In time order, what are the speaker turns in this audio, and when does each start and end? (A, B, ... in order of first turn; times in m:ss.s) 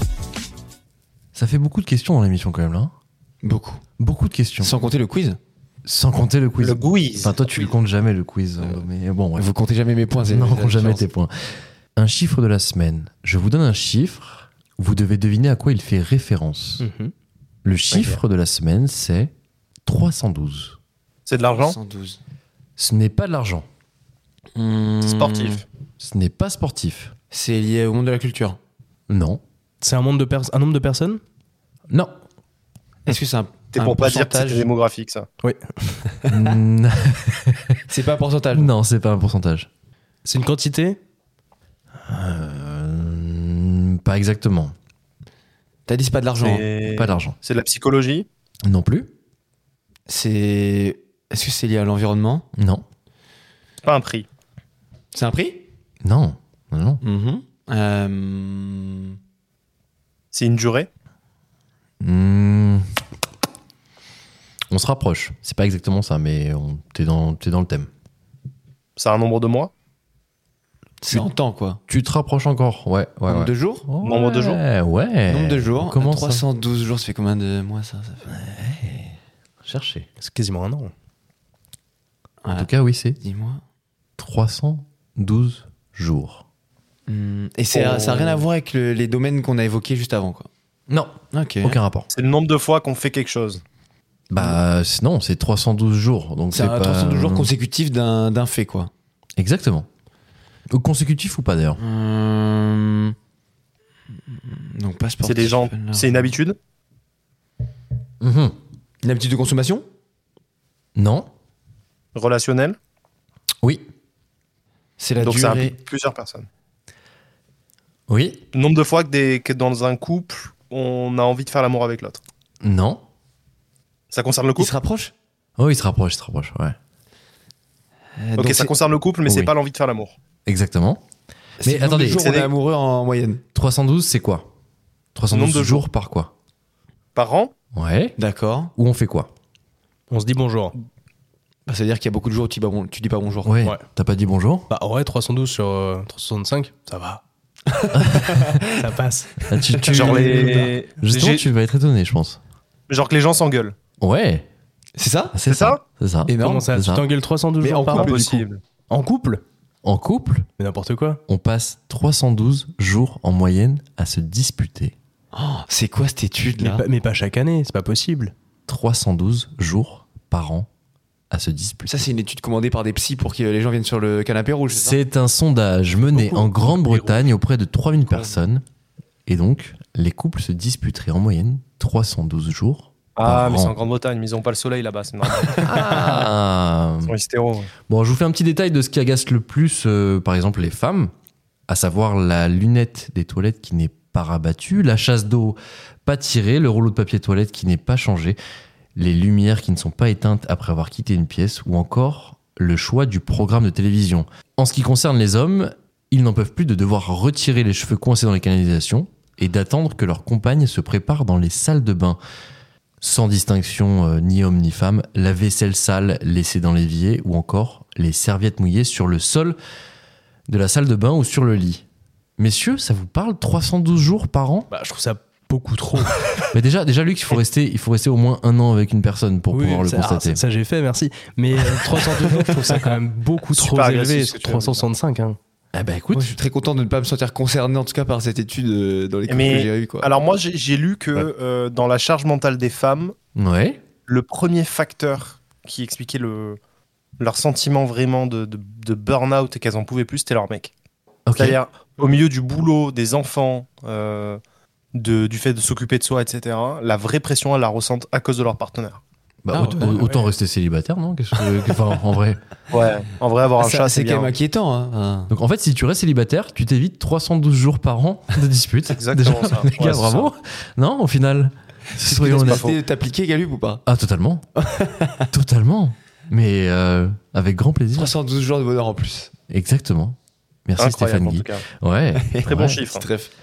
0:01.3-0:02.9 A
0:03.4-0:03.8 B
0:04.0-0:04.7 A
0:04.6-0:05.4 B
0:05.8-0:09.4 A
0:06.6-0:07.3 C
0:07.3-0:07.7 B
0:09.4-0:11.1 B
0:10.2-0:11.3 A
0:12.0-0:16.8 A
0:16.8-0:17.1 D
0:17.6-0:19.3 A
0:17.9-0:18.2 C
0:19.8-0:20.8 A
0:21.3-0:21.8 C
0:21.5-0:22.2 B
0:22.8-0:23.7 A
0:24.6-0:25.6 B
0:25.0-0:25.6 C
0:26.0-0:27.1 A
0:27.3-0:28.6 B
0:29.1-0:29.4 A
0:29.8-0:31.2 D
0:33.1-0:34.7 B
0:33.7-0:35.3 C
0:35.4-0:36.0 D
0:36.3-0:37.8 A
0:37.9-0:38.7 B
0:38.5-0:39.7 A
0:40.2-0:41.0 D
0:42.0-0:44.7 A
0:45.9-0:46.6 B
0:46.4-0:48.3 C
0:46.9-0:47.4 A
0:48.6-0:49.1 A
0:50.1-0:52.4 B
0:52.6-0:52.8 A
0:53.8-0:54.2 C
0:55.1-0:55.6 B
0:56.0-0:57.0 A
0:57.0-0:59.2 B
1:00.3-1:00.9 C
1:02.0-1:02.8 A
1:04.7-1:07.9 A
1:09.0-1:09.7 C
1:11.0-1:11.8 B
1:11.9-1:16.4 A
1:13.3-1:13.8 B
1:14.0-1:14.6 C
1:15.3-1:18.3 B
1:18.3-1:20.1 A
1:20.2-1:20.9 D
1:22.4-1:23.6 B
1:22.5-1:23.2 A
1:24.2-1:26.4 A
1:27.1-1:30.5 B
1:27.7-1:28.4 C
1:30.9-1:32.1 A
1:31.3-1:31.8 B
1:32.1-1:33.6 C
1:34.3-1:37.5 A
1:36.5-1:38.9 B
1:39.4-1:39.9 A
1:40.7-1:41.8 A
1:41.8-1:43.1 B
1:44.3-1:46.4 B
1:45.2-1:46.6 C
1:48.2-1:48.6 A
1:49.0-1:49.8 B
1:51.0-1:51.3 A
1:52.1-1:52.8 C
1:55.0-1:55.8 B
1:55.2-1:56.5 C
1:58.1-1:58.4 A
1:58.5-2:02.2 C
2:02.6-2:03.0 A
2:04.1-2:04.7 C
2:04.6-2:05.1 B
2:05.6-2:06.7 A
2:08.2-2:08.8 B
2:08.4-2:10.1 C
2:09.2-2:09.5 A
2:10.4-2:11.0 A
2:11.6-2:13.4 B
2:11.6-2:12.2 A
2:12.1-2:12.5 C
2:13.5-2:14.5 A
2:15.1-2:16.3 A
2:15.3-2:15.9 C
2:17.1-2:17.5 C
2:17.7-2:18.2 A
2:18.2-2:18.7 B
2:18.8-2:19.3 A
2:20.1-2:20.7 D
2:21.6-2:23.5 B
2:23.4-2:24.7 A
2:24.7-2:27.2 D
2:27.7-2:28.7 B
2:27.9-2:28.6 A
2:28.7-2:29.3 D
2:29.4-2:32.4 A
2:29.7-2:30.7 B
2:29.8-2:31.4 C
2:30.0-2:30.7 D
2:32.9-2:33.7 C
2:34.0-2:34.5 A
2:35.0-2:35.4 B
2:35.3-2:37.1 A
2:35.5-2:35.8 C
2:36.3-2:36.7 B
2:36.4-2:39.4 D
2:37.6-2:38.2 B
2:37.9-2:38.5 C
2:39.8-2:40.5 A
2:40.6-2:41.2 D
2:41.3-2:44.9 A
2:45.3-2:46.8 B
2:46.6-2:48.3 D
2:48.7-2:50.7 A
2:51.3-2:52.1 A
2:51.9-2:55.0 B
2:54.7-2:58.6 A
2:56.1-2:57.3 D
2:58.1-2:58.4 B
2:59.2-3:03.7 A
3:03.2-3:05.6 C
3:05.6-3:07.1 A
3:05.7-3:06.0 B
3:07.0-3:07.7 C
3:07.9-3:11.1 A
3:11.7-3:18.4 A
3:19.0-3:32.2 A
3:33.0-3:39.6 A
3:40.5-3:41.8 A
3:42.4-3:44.7 A
3:44.7-3:46.3 D
3:46.5-3:50.4 A
3:49.5-3:55.4 D
3:52.1-3:52.8 B
3:53.5-3:54.8 C
3:55.7-3:56.3 A
3:56.1-4:00.1 B
3:59.3-4:03.1 C
4:03.4-4:03.8 A
4:04.1-4:06.6 C
4:07.2-4:10.7 C
4:11.2-4:11.6 A
4:11.4-4:14.4 C
4:14.9-4:19.0 C
4:19.4-4:22.4 A
4:19.5-4:20.0 B
4:20.0-4:20.2 D
4:22.7-4:24.3 C
4:23.6-4:25.3 B
4:25.3-4:32.8 A
4:28.9-4:30.3 C
4:32.0-4:33.8 B
4:33.8-4:34.4 A
4:34.6-4:35.2 B
4:35.3-4:38.1 A
4:37.9-4:39.3 B
4:39.5-4:42.8 A
4:40.8-4:41.6 C
4:42.2-4:43.3 B
4:42.4-4:43.0 C